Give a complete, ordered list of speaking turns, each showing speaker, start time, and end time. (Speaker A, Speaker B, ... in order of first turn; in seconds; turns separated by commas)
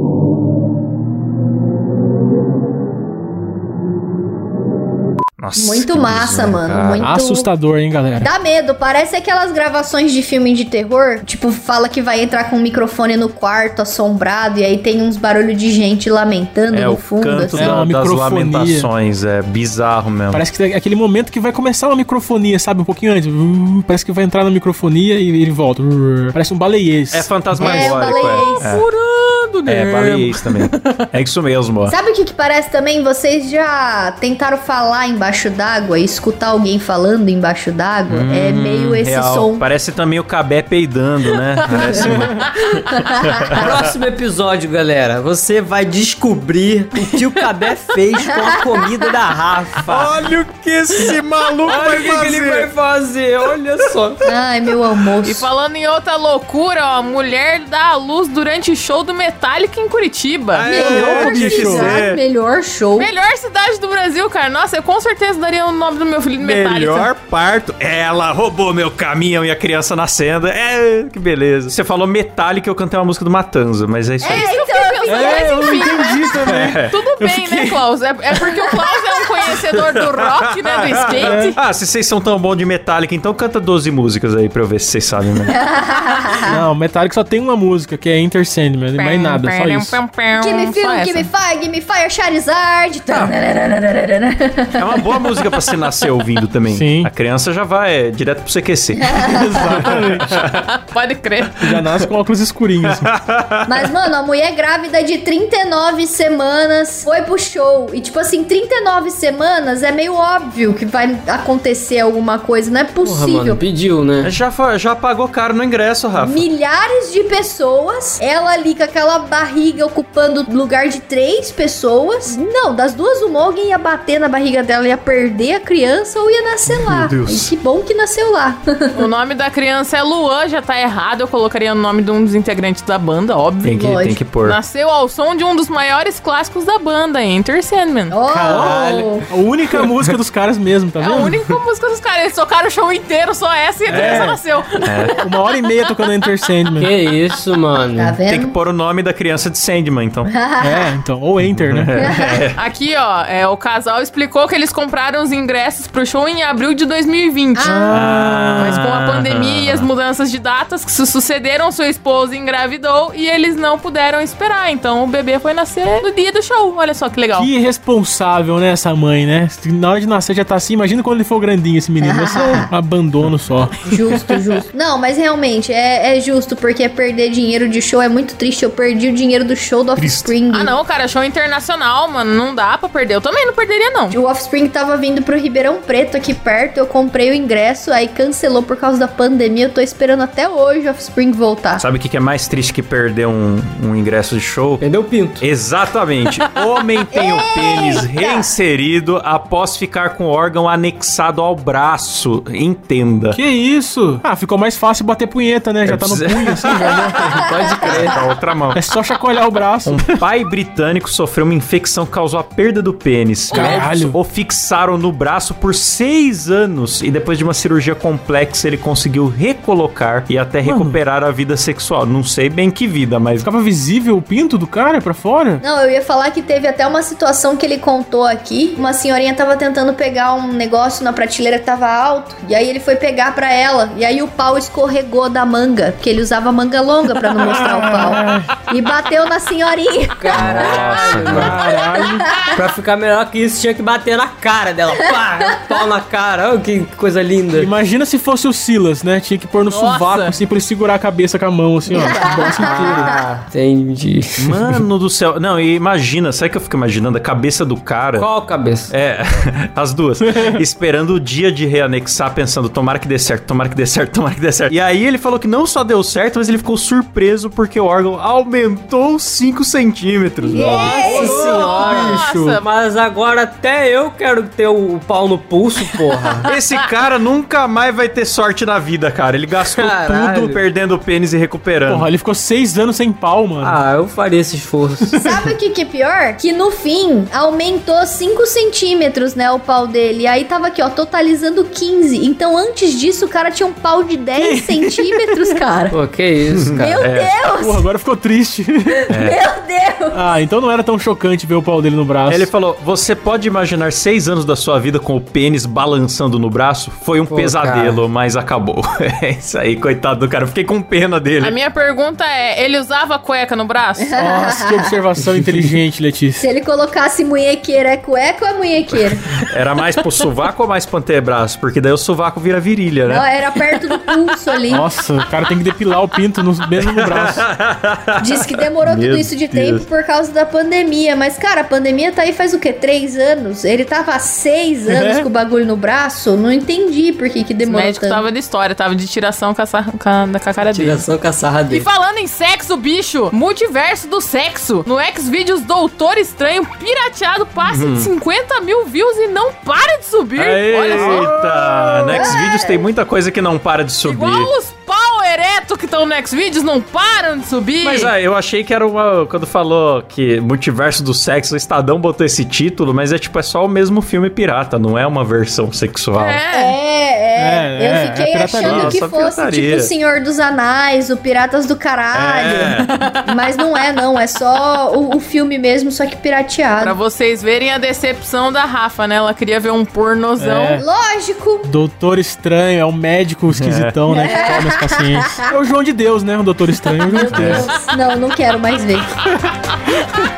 Speaker A: 5.4-7.1, Speaker B: 5.6-7.5, Speaker C: 7.0-8.3, Speaker B: 8.2-17.8, Speaker A: 16.7-20.4, Speaker C: 17.5-18.9, Speaker C: 20.3-27.9, Speaker A: 27.1-28.9, Speaker B: 27.6-28.8, Speaker D: 28.1-30.6, Speaker A: 29.7-31.9, Speaker B: 31.9-39.6, Speaker A: 38.1-43.9, Speaker D: 41.3-42.4, Speaker B: 43.0-43.3, Speaker E: 43.6-50.1, Speaker B: 48.3-49.1, Speaker A: 49.9-52.7, Speaker E: 51.6-54.2, Speaker B: 54.2-55.5, Speaker D: 55.2-60.9, Speaker A: 60.5-62.2, Speaker B: 60.7-63.1, Speaker C: 60.8-62.0, Speaker D: 63.0-67.1, Speaker A: 66.4-74.5, Speaker B: 74.2-76.4, Speaker D: 74.2-81.6, Speaker C: 75.0-77.8, Speaker A: 76.4-76.9, Speaker A: 79.5-85.6, Speaker C: 81.2-81.6, Speaker B: 85.5-86.6, Speaker C: 86.5-90.0, Speaker D: 89.0-91.3, Speaker B: 90.4-95.4, Speaker A: 93.1-93.3, Speaker A: 94.8-100.5, Speaker C: 96.7-97.1, Speaker B: 99.0-99.6, Speaker C: 99.2-100.5, Speaker D: 100.6-101.7, Speaker C: 101.6-103.1, Speaker A: 102.8-103.9, Speaker B: 103.7-113.6, Speaker E: 113.0-114.3, Speaker A: 114.2-116.5, Speaker B: 116.2-129.1, Speaker A: 126.7-127.5, Speaker D: 128.9-138.2, Speaker A: 133.6-134.6, Speaker B: 133.7-134.2, Speaker B: 138.1-139.2, Speaker C: 138.3-141.4, Speaker E: 138.4-139.1, Speaker D: 141.0-146.5, Speaker A: 143.9-145.2, Speaker C: 143.9-144.4, Speaker C: 145.2-146.9, Speaker E: 146.8-148.1, Speaker B: 147.9-148.6, Speaker A: 148.3-150.3, Speaker B: 150.3-150.9, Speaker C: 150.6-152.1, Speaker A: 151.4-152.6, Speaker B: 152.0-152.4, Speaker D: 152.6-157.9, Speaker B: 157.6-158.1, Speaker C: 157.7-158.7, Speaker A: 157.9-159.9, Speaker D: 158.6-167.5, Speaker C: 167.3-173.9, Speaker B: 172.0-172.7, Speaker B: 173.8-180.8, Speaker A: 180.0-180.3, Speaker D: 180.5-184.1, Speaker B: 184.1-191.8, Speaker A: 191.8-194.8, Speaker E: 194.8-195.4, Speaker A: 195.4-203.4, Speaker B: 197.1-198.5, Speaker C: 203.3-207.2, Speaker A: 205.9-208.8, Speaker E: 207.2-208.1, Speaker B: 207.5-207.8, Speaker C: 208.7-210.2, Speaker A: 209.8-223.5, Speaker D: 213.5-213.9, Speaker C: 213.5-214.2, Speaker C: 220.6-221.0, Speaker C: 223.4-225.6, Speaker B: 225.6-241.4, Speaker C: 237.3-238.5, Speaker E: 240.2-241.8, Speaker A: 240.3-241.6, Speaker D: 240.6-241.4, Speaker C: 241.6-242.2, Speaker B: 242.0-242.6, Speaker E: 242.5-247.7, Speaker C: 247.5-253.1, Speaker D: 249.7-250.4, Speaker B: 252.0-253.1, Speaker E: 252.1-254.4, Speaker A: 254.4-258.3, Speaker E: 258.2-258.9, Speaker A: 258.9-271.4, Speaker C: 260.2-260.6, Speaker B: 270.5-272.0, Speaker D: 270.5-272.6, Speaker E: 270.9-276.5, Speaker A: 276.5-282.1, Speaker E: 279.8-280.6, Speaker C: 281.9-283.8, Speaker E: 283.6-285.2, Speaker B: 285.2-296.0, Speaker C: 294.4-295.6, Speaker E: 295.9-297.0, Speaker A: 296.5-297.4, Speaker B: 296.8-297.8, Speaker C: 297.4-299.2, Speaker A: 299.1-299.4, Speaker B: 299.1-300.3, Speaker C: 300.1-302.5, Speaker A: 302.3-311.6, Speaker E: 307.3-308.0, Speaker D: 311.4-314.1, Speaker B: 314.0-314.9, Speaker C: 314.1-316.5, Speaker B: 316.4-319.2, Speaker A: 318.9-323.3, Speaker B: 323.1-324.9, Speaker C: 324.7-327.5, Speaker A: 326.8-329.9, Speaker B: 328.2-338.2, Speaker C: 334.9-335.3, Speaker D: 337.6-341.0, Speaker E: 340.7-341.9, Speaker D: 341.7-351.3, Speaker A: 347.6-348.1, Speaker A: 350.4-354.5, Speaker B: 352.1-352.9, Speaker D: 354.0-358.1, Speaker A: 357.8-366.4, Speaker D: 366.2-366.7, Speaker B: 366.5-377.0, Speaker C: 367.4-369.0, Speaker A: 368.6-369.9, Speaker A: 372.1-372.9, Speaker D: 372.8-373.2, Speaker D: 376.8-380.8, Speaker C: 380.4-380.9, Speaker B: 380.8-381.7, Speaker C: 381.6-387.7, Speaker A: 383.5-383.9, Speaker B: 384.1-385.4, Speaker B: 387.1-389.1, Speaker A: 387.3-387.6